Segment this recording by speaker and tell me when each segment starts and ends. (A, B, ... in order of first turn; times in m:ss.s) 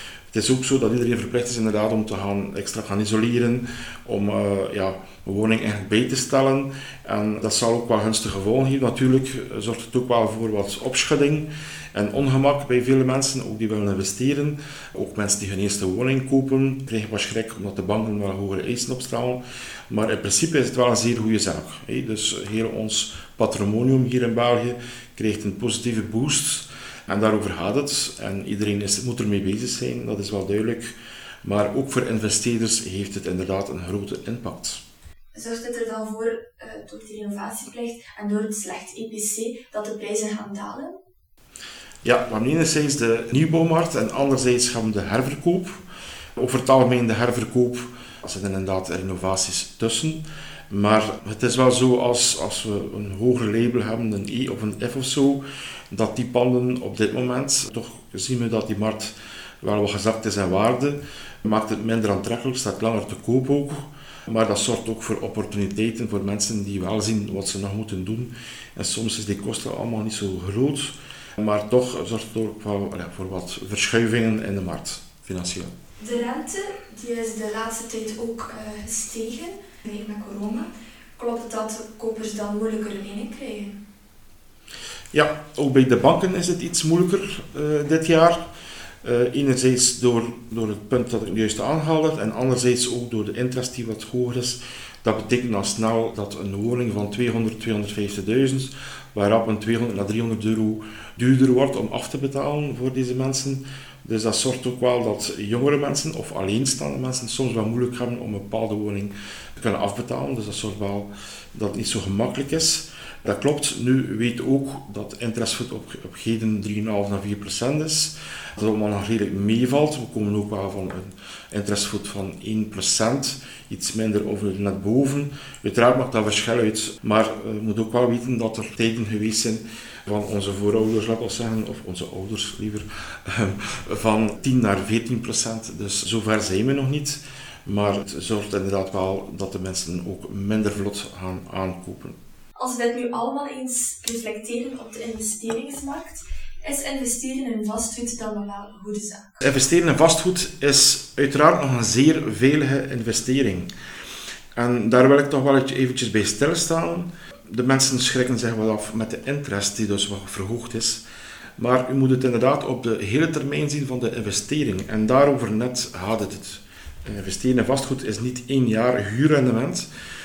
0:00.3-0:30.9 A
0:31.4-0:34.8 A
0:35.3-0:41.0 B
0:42.0-0:45.8 A
0:46.4-1:15.7 A
1:16.0-1:23.8 B
1:25.1-1:28.4 A
1:29.0-2:22.2 A
2:22.6-2:29.4 B
2:29.4-2:33.7 A
2:34.6-2:41.0 A
2:41.6-2:49.9 A